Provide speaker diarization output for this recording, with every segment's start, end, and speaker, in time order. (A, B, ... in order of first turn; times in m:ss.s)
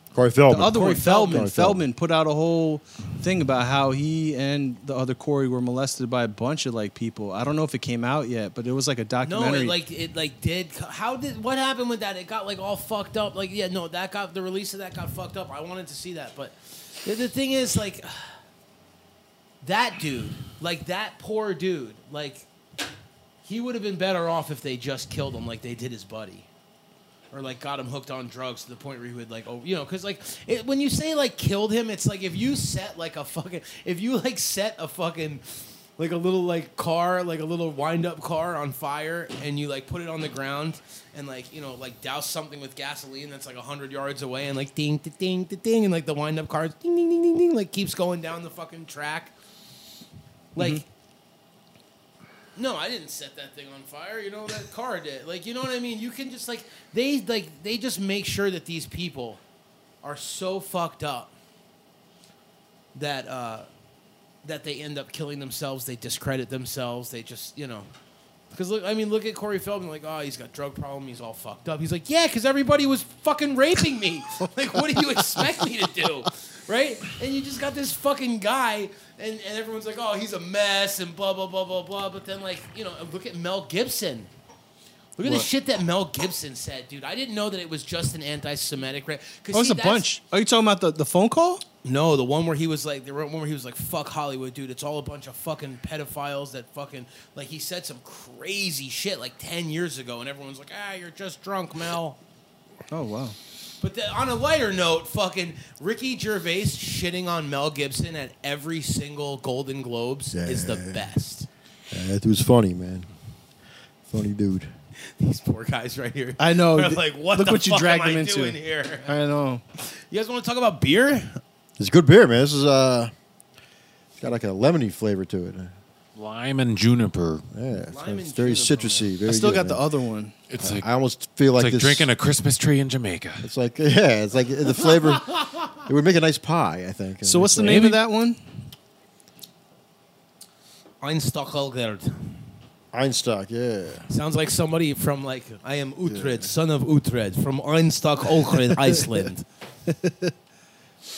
0:00.1-0:01.8 A
0:00.5-0:09.8 B
0:00.6-0:01.5 C
0:09.2-0:18.4 C
0:19.6-0:22.4 C
0:23.4-0:26.5 C
0:27.3-0:49.3 C
0:50.6-0:50.8 B
0:50.6-0:50.8 C
0:52.6-0:59.4 C
1:00.0-1:01.3 C
1:03.0-1:03.7 C
1:04.4-1:07.9 C
1:08.5-1:24.3 C
1:25.2-1:30.1 C
1:29.5-1:31.6 B
1:31.8-1:42.2 C
1:42.9-1:43.4 B
1:43.8-1:51.5 C
1:50.3-1:51.0 A
1:51.9-1:53.1 A
1:54.1-1:54.7 A
1:55.2-1:59.1 C
1:56.4-1:59.6 B
1:59.8-2:01.4 C
2:01.8-2:03.1 A
2:04.2-2:05.7 A
2:06.1-2:07.4 D
2:07.5-2:09.8 A
2:07.9-2:09.1 C
2:09.3-2:10.4 B
2:10.5-2:10.9 D
2:10.6-2:12.1 A
2:11.6-2:13.5 D
2:13.4-2:18.0 A
2:17.2-2:18.4 B
2:21.0-2:22.4 C
2:22.9-2:24.1 A
2:24.1-2:29.4 C
2:26.1-2:26.5 A
2:29.9-2:30.3 B